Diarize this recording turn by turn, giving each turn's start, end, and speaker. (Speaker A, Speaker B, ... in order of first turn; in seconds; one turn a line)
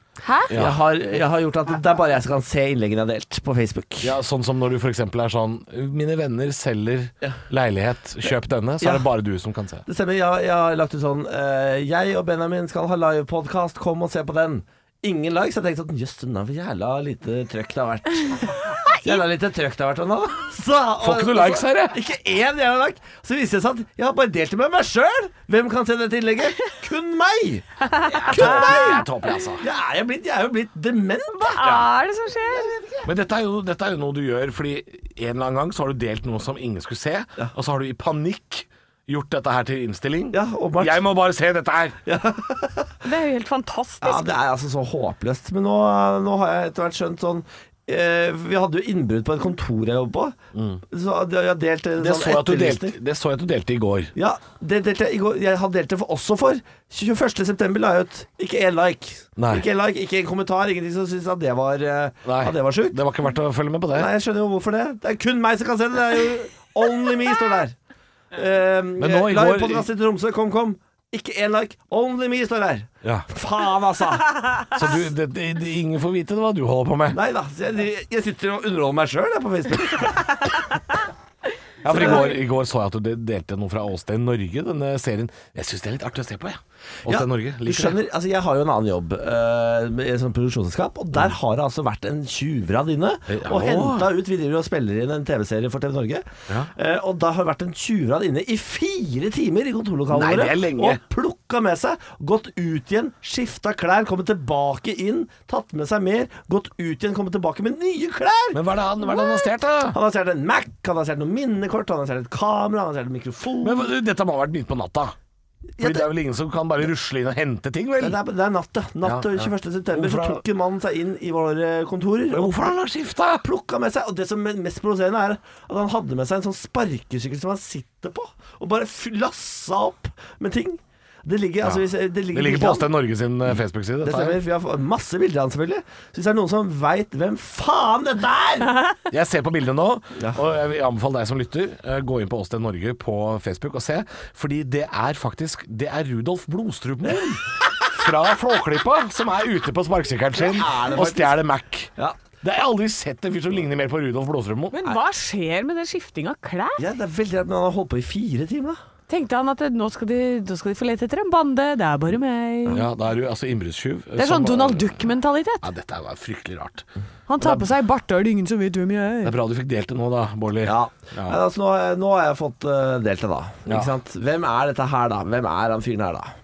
Speaker A: 0.2-0.5
Speaker B: 0.5-0.8
Speaker C: 0.5-4.2
Speaker B: 4.0-9.8
Speaker C: 8.8-9.1
Speaker C: 9.9-29.1
Speaker A: 18.7-19.2
Speaker B: 21.0-22.0
Speaker A: 27.8-29.0
Speaker B: 28.1-29.7
Speaker C: 29.6-31.9
Speaker A: 31.3-32.7
Speaker C: 32.5-33.1
Speaker B: 33.0-42.0
Speaker C: 40.3-41.0
Speaker C: 42.1-43.0
Speaker A: 43.0-44.3
Speaker C: 44.0-50.4
Speaker B: 50.5-50.8
Speaker C: 50.9-53.0
Speaker B: 52.0-54.1
Speaker C: 54.1-63.0
Speaker B: 59.4-59.6
Speaker B: 62.2-64.1
Speaker C: 63.9-67.8
Speaker C: 68.3-74.6
Speaker B: 69.0-69.9
Speaker B: 73.0-73.3
Speaker B: 74.7-77.2
Speaker C: 77.1-80.5
Speaker B: 81.8-88.0
Speaker C: 81.8-82.4
Speaker C: 87.1-108.6
Speaker B: 93.3-94.1
Speaker B: 100.1-101.0
Speaker B: 108.5-110.0
Speaker C: 109.9-113.9
Speaker B: 113.6-115.2
Speaker C: 115.8-116.1
Speaker B: 115.8-118.2
Speaker C: 118.0-122.6
Speaker B: 119.0-120.4
Speaker B: 122.3-123.4
Speaker C: 123.4-132.9
Speaker B: 131.6-134.4
Speaker C: 134.0-138.8
Speaker B: 139.1-154.9
Speaker C: 150.3-151.4
Speaker A: 154.7-156.8
Speaker C: 156.8-158.8
Speaker A: 159.1-162.8
Speaker B: 162.7-165.0
Speaker A: 164.2-165.7
Speaker B: 165.6-166.9
Speaker A: 167.3-169.3
Speaker B: 167.4-167.7
Speaker B: 169.2-171.4
Speaker C: 170.6-176.3
Speaker B: 173.7-173.9